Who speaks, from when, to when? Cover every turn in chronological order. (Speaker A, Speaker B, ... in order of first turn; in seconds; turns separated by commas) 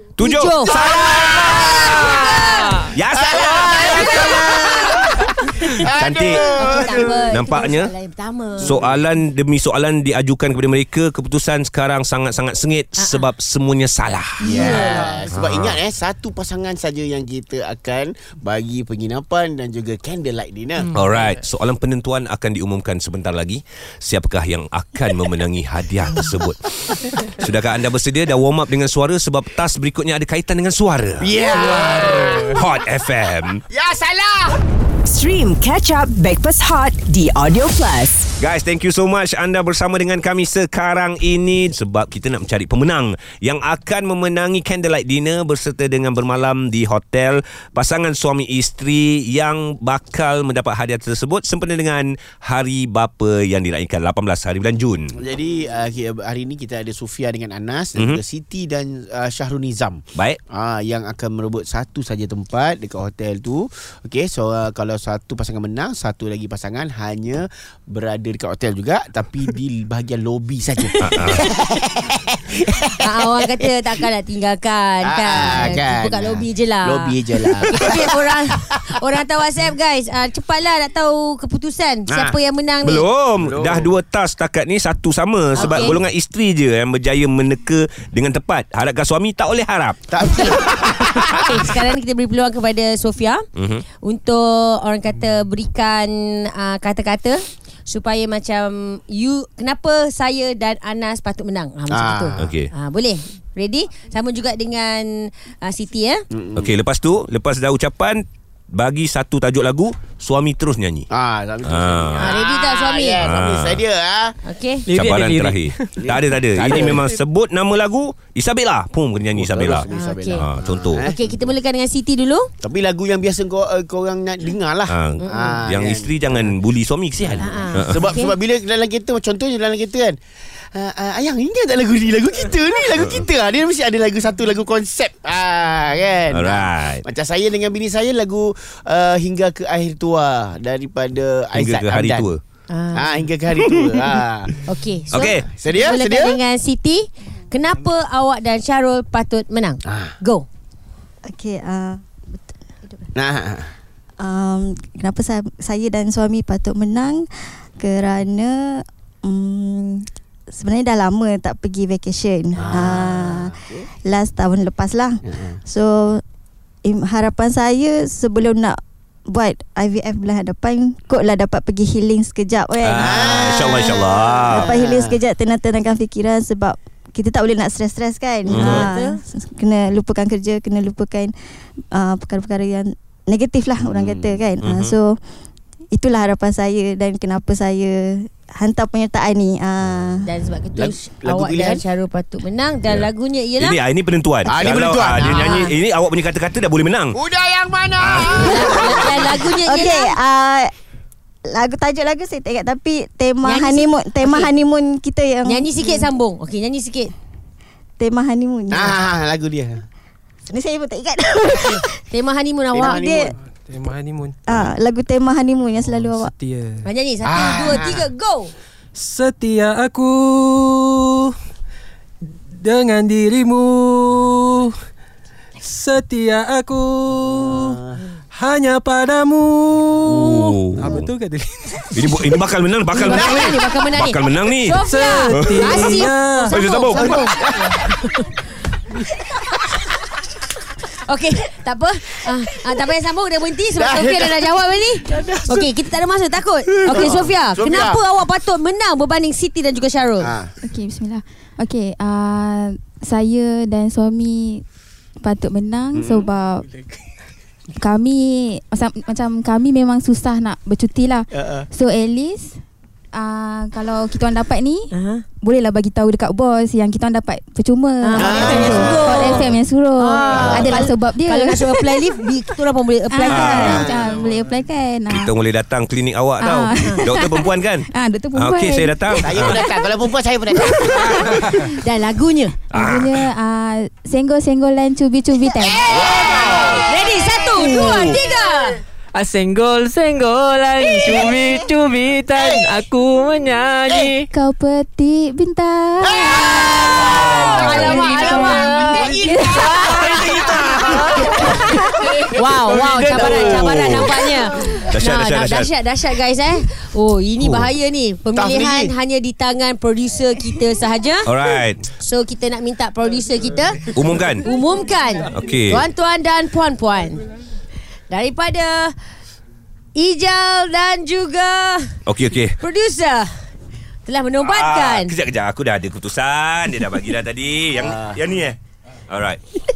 Speaker A: 0.2-4.8, Speaker B: 0.2-0.8, Speaker C: 0.6-7.3, Speaker D: 2.1-3.0, Speaker B: 2.2-2.5, Speaker B: 3.6-4.6, Speaker A: 5.7-7.9, Speaker B: 6.4-8.8, Speaker C: 8.6-9.0, Speaker A: 8.6-14.7, Speaker B: 13.0-13.3, Speaker B: 14.4-15.2, Speaker C: 14.4-20.9, Speaker A: 15.3-15.8, Speaker D: 20.9-21.4, Speaker A: 20.9-31.3, Speaker C: 31.2-32.7, Speaker E: 31.5-32.4, Speaker A: 32.2-33.6, Speaker C: 33.7-34.6, Speaker F: 35.1-38.3, Speaker A: 38.4-55.2, Speaker C: 55.2-73.6, Speaker A: 71.0-71.4, Speaker B: 73.0-77.1, Speaker C: 75.0-78.4, Speaker B: 77.6-83.1, Speaker C: 82.1-82.4, Speaker A: 82.8-90.0, Speaker C: 83.4-83.9, Speaker C: 85.5-86.0, Speaker B: 85.6-86.0, Speaker C: 90.1-91.8, Speaker B: 90.2-93.4, Speaker A: 93.6-93.8, Speaker B: 94.0-106.2, Speaker C: 101.9-102.5, Speaker A: 102.4-102.7, Speaker C: 106.3-106.7, Speaker A: 106.6-111.1, Speaker C: 111.1-114.3, Speaker A: 111.6-112.4, Speaker B: 112.2-113.2, Speaker A: 113.2-113.8, Speaker B: 114.4-114.9, Speaker D: 114.9-116.0, Speaker A: 114.9-119.9, Speaker C: 116.0-117.2, Speaker C: 119.3-121.5, Speaker B: 119.9-120.5, Speaker A: 120.4-121.1, Speaker B: 121.0-122.5, Speaker C: 122.6-126.5, Speaker A: 124.9-128.0, Speaker B: 125.2-125.6, Speaker C: 127.2-130.2, Speaker B: 127.4-128.3, Speaker C: 130.7-142.3, Speaker A: 133.0-133.2, Speaker A: 136.3-137.1, Speaker A: 141.5-142.4, Speaker B: 142.7-143.3, Speaker C: 142.9-144.6, Speaker A: 143.6-144.6, Speaker B: 144.7-150.5, Speaker A: 145.1-145.5, Speaker C: 145.5-146.4, Speaker C: 149.9-150.2, Speaker G: 151.2-152.4, Speaker C: 153.1-153.7, Speaker G: 154.2-166.2, Speaker C: 162.6-163.9, Speaker C: 165.3-165.6, Speaker G: 166.8-185.2, Speaker A: 172.8-174.7, Speaker C: 173.0-175.2, Speaker A: 178.5-178.9, Speaker B: 178.6-179.2, Speaker C: 183.8-184.4, Speaker A: 184.6-184.9, Speaker G: 185.9-190.3, Speaker C: 189.8-190.2, Speaker B: 190.2-193.8, Speaker C: 190.8-191.8, Speaker A: 192.9-197.2, Speaker C: 194.5-195.7, Speaker B: 195.2-195.7, Speaker C: 197.1-199.4, Speaker A: 198.0-199.1, Speaker B: 198.3-200.2, Speaker G: 199.6-200.7, Speaker G: 201.5-206.1, Speaker B: 203.4-204.5, Speaker B: 205.4-207.1, Speaker G: 208.0-209.1, Speaker C: 208.7-209.8, Speaker G: 210.5-211.9, Speaker B: 211.6-213.1, Speaker C: 212.7-213.3, Speaker G: 212.8-213.3, Speaker E: 213.6-214.7, Speaker G: 214.5-216.3, Speaker E: 215.8-216.9, Speaker B: 216.8-218.5, Speaker C: 217.2-218.1, Speaker E: 218.9-221.3, Speaker E: 222.5-224.8, Speaker E: 225.6-227.8, Speaker C: 227.5-228.0, Speaker E: 228.3-232.4, Speaker A: 230.1-231.1, Speaker A: 231.9-235.9, Speaker B: 232.9-237.4, Speaker C: 233.1-233.5, Speaker E: 234.8-236.6, Speaker A: 236.5-237.3, Speaker C: 236.9-237.8, Speaker B: 239.3-239.8, Speaker B: 240.9-250.3, Speaker C: 243.8-244.6, Speaker D: 245.1-245.4, Speaker C: 245.1-245.4, Speaker C: 246.9-248.0, Speaker C: 250.2-250.6, Speaker H: 250.6-254.7, Speaker H: 255.2-256.7, Speaker C: 256.0-256.3, Speaker H: 257.8-262.6, Speaker C: 261.3-261.7, Speaker H: 263.1-264.9, Speaker B: 264.9-265.2, Speaker H: 265.4-272.1, Speaker B: 268.0-273.8, Speaker C: 268.2-269.3, Speaker C: 270.3-270.9, Speaker A: 270.4-270.7, Speaker H: 273.1-275.3, Speaker A: 273.3-273.9, Speaker C: 273.5-274.5, Speaker A: 275.1-279.6, Speaker H: 276.4-279.9, Speaker B: 276.8-277.0, Speaker C: 279.3-281.7, Speaker H: 280.6-281.5, Speaker B: 281.5-282.6, Speaker A: 282.7-283.3, Speaker H: 282.7-285.9, Speaker C: 285.6-286.9, Speaker A: 285.9-286.9, Speaker B: 286.8-288.8, Speaker D: 289.1-294.3, Speaker C: 292.4-292.6, Speaker H: 294.3-296.7, Speaker C: 296.0-304.2, Speaker B: 296.4-300.6, Speaker H: 297.3-300.0, Speaker B: 301.2-301.6, Speaker B: 302.3-311.3, Speaker A: 302.9-304.2, Speaker A: 304.7-305.7, Speaker A: 307.4-307.7, Speaker C: 308.4-308.9, Speaker A: 311.3-311.8, Speaker B: 311.9-317.3, Speaker A: 313.9-314.5, Speaker A: 315.3-315.8, Speaker B: 318.1-318.9, Speaker B: 319.9-322.0, Speaker A: 322.1-322.6, Speaker B: 322.6-323.3, Speaker B: 324.1-325.1, Speaker A: 324.4-328.6, Speaker C: 327.8-328.2, Speaker A: 329.1-329.4